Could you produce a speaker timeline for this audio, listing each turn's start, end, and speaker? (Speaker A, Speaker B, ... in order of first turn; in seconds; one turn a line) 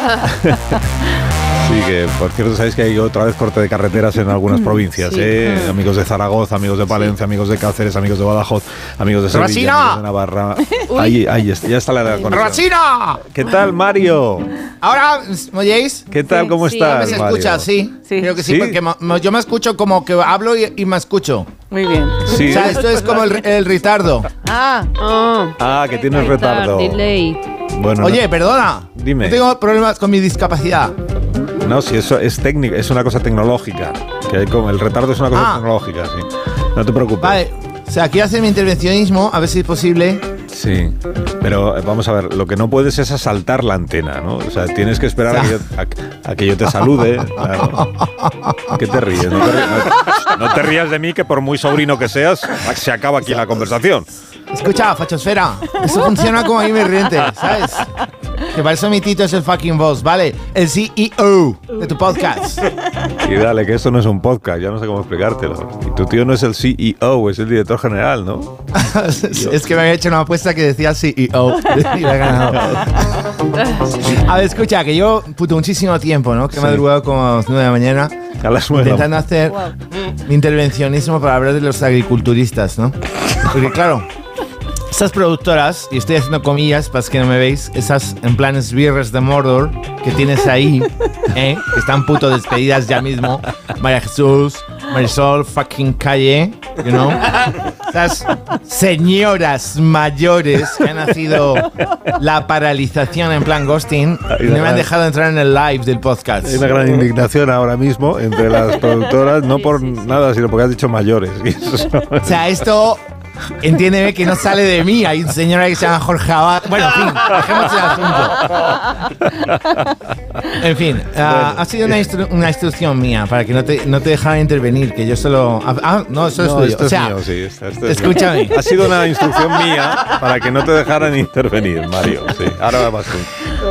Speaker A: 1.6-12.6
Speaker B: 5.0-5.3
Speaker C: 5.4-5.7
Speaker D: 9.3-10.0
Speaker B: 10.9-11.2
Speaker D: 12.3-13.2
Speaker A: 13.2-14.5
Speaker D: 14.8-16.1
Speaker A: 16.1-17.7
Speaker C: 16.3-16.5
Speaker B: 16.6-17.1
Speaker D: 16.8-21.5
Speaker C: 18.1-18.4
Speaker A: 18.4-18.8
Speaker C: 21.7-22.5
Speaker A: 22.3-22.9
Speaker D: 22.4-24.3
Speaker C: 24.4-24.9
Speaker B: 25.0-27.4
Speaker A: 25.6-27.0
Speaker A: 27.7-28.3
Speaker D: 28.0-31.0
Speaker A: 29.0-29.4
Speaker A: 31.6-37.4
Speaker D: 35.3-35.6
Speaker D: 37.2-40.2
Speaker A: 40.5-47.9
Speaker D: 45.3-45.6
Speaker D: 47.4-48.8
Speaker A: 48.7-54.1
Speaker D: 54.5-57.9
Speaker D: 58.5-62.6
Speaker A: 63.2-68.6
Speaker D: 68.7-73.0
Speaker D: 74.0-78.2
Speaker A: 78.4-79.2
Speaker D: 78.7-79.7
Speaker D: 80.2-82.9
Speaker D: 83.5-84.0
Speaker D: 84.9-106.7
Speaker A: 104.3-104.9
Speaker A: 106.4-112.5
Speaker D: 112.2-113.0
Speaker D: 113.6-118.6
Speaker A: 119.3-119.7
Speaker D: 120.5-127.2
Speaker A: 121.2-121.7
Speaker A: 126.3-133.6
Speaker D: 127.8-128.7